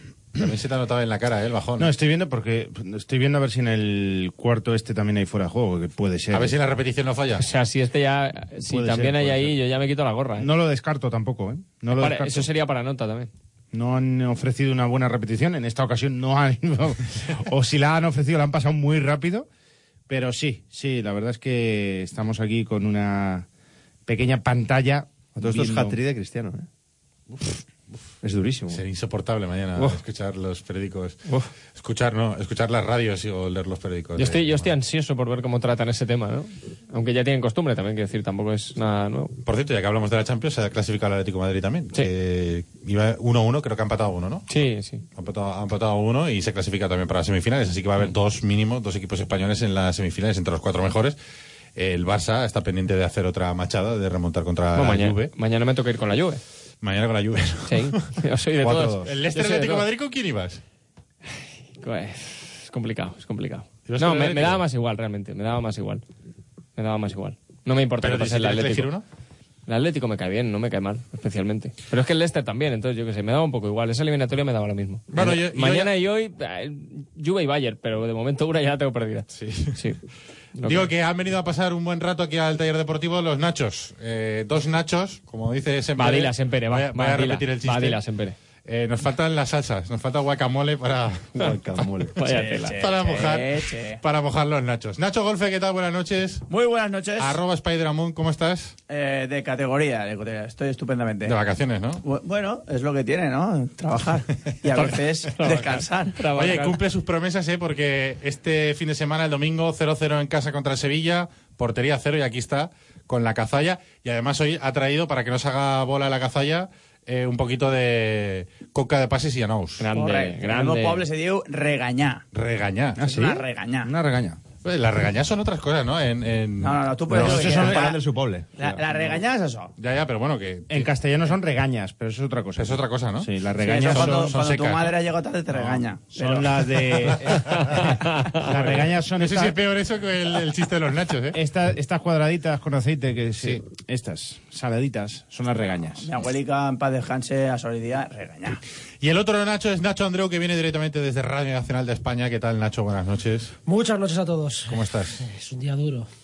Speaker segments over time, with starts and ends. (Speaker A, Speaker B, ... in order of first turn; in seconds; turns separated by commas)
Speaker A: 0.3-1.9, Speaker B: 1.8-6.5, Speaker A: 6.3-7.5, Speaker C: 7.4-10.5, Speaker B: 8.7-9.5, Speaker B: 10.3-12.5, Speaker C: 11.9-13.3, Speaker B: 13.7-19.5, Speaker B: 20.1-23.5, Speaker B: 24.1-26.0, Speaker D: 25.4-26.7, Speaker D: 28.2-28.8, Speaker A: 28.7-31.2, Speaker A: 31.7-34.7, Speaker C: 34.2-39.3, Speaker A: 39.4-44.4, Speaker C: 44.5-45.0, Speaker A: 45.1-51.2, Speaker A: 51.8-55.3, Speaker C: 54.7-56.4, Speaker A: 56.8-58.0, Speaker C: 57.7-59.9, Speaker A: 58.6-60.6, Speaker C: 61.3-66.0, Speaker A: 63.9-64.6, Speaker C: 66.8-68.9, Speaker A: 68.0-69.0, Speaker C: 69.7-80.0, Speaker A: 75.1-75.9, Speaker A: 79.3-79.9, Speaker C: 80.6-80.9, Speaker A: 80.6-88.0, Speaker C: 86.0-88.3, Speaker A: 88.6-91.3, Speaker D: 91.3-92.2, Speaker C: 92.2-92.8, Speaker E: 92.2-94.0, Speaker A: 92.7-96.4, Speaker E: 96.5-97.4, Speaker A: 97.2-98.7, Speaker E: 98.9-101.4, Speaker A: 101.2-102.0, Speaker E: 102.0-106.2, Speaker C: 104.7-106.8, Speaker A: 106.3-119.9, Speaker C: 119.8-121.1, Speaker E: 119.9-122.2, Speaker A: 122.3-123.2, Speaker B: 123.0-124.4, Speaker E: 123.0-123.9, Speaker A: 124.6-127.3, Speaker E: 126.6-128.0, Speaker B: 127.1-127.9, Speaker D: 127.1-128.8, Speaker E: 128.6-129.7, Speaker A: 129.8-130.9, Speaker B: 130.7-134.4, Speaker A: 132.6-135.0, Speaker E: 133.6-136.6, Speaker B: 136.1-139.6, Speaker A: 137.1-137.8, Speaker C: 137.6-138.4, Speaker A: 139.2-141.4, Speaker B: 141.3-146.1, Speaker E: 146.0-148.6, Speaker A: 149.0-153.5, Speaker F: 153.7-156.1, Speaker A: 154.7-155.2